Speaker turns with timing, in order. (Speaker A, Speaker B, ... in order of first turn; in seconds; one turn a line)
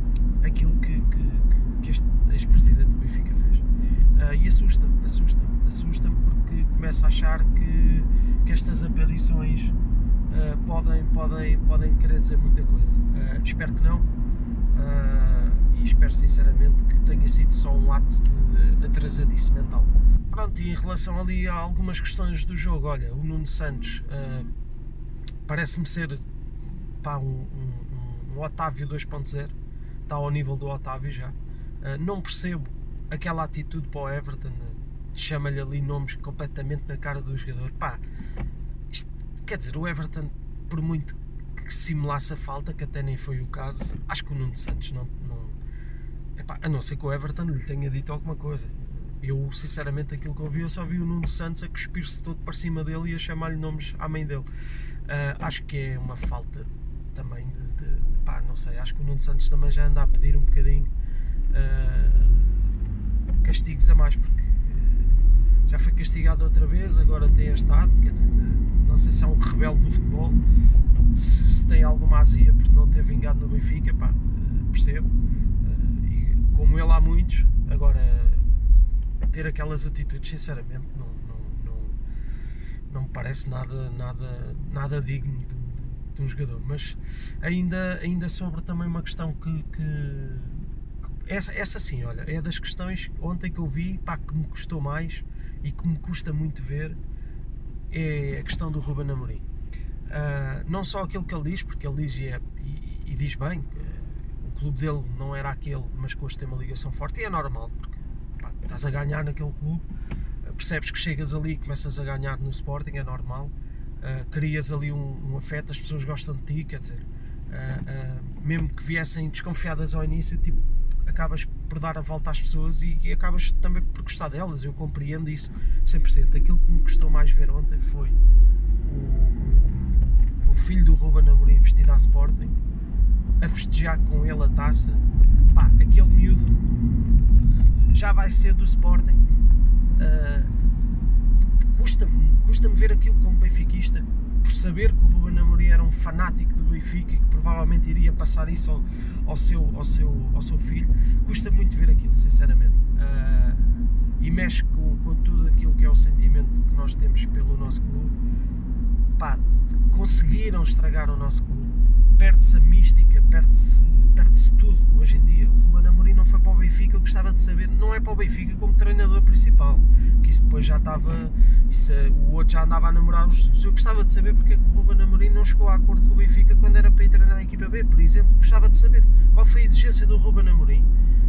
Speaker A: 0.4-9.8
Speaker A: 10.3-14.1
Speaker A: 14.7-24.5
Speaker A: 25.4-29.5
Speaker A: 30.1-38.0
Speaker A: 38.9-45.5
Speaker A: 46.4-54.5
Speaker A: 55.1-60.9
Speaker A: 61.5-62.7
Speaker A: 63.4-70.4
Speaker A: 71.1-78.5
Speaker A: 79.3-82.0
Speaker A: 82.9-90.7
Speaker A: 91.2-97.0
Speaker A: 97.9-99.4
Speaker A: 100.1-109.8
Speaker A: 110.4-128.2
Speaker A: 128.8-132.6
Speaker A: 133.4-136.6
Speaker A: 137.3-139.2
Speaker A: 140.0-140.5
Speaker A: 141.7-158.2
Speaker A: 159.2-180.9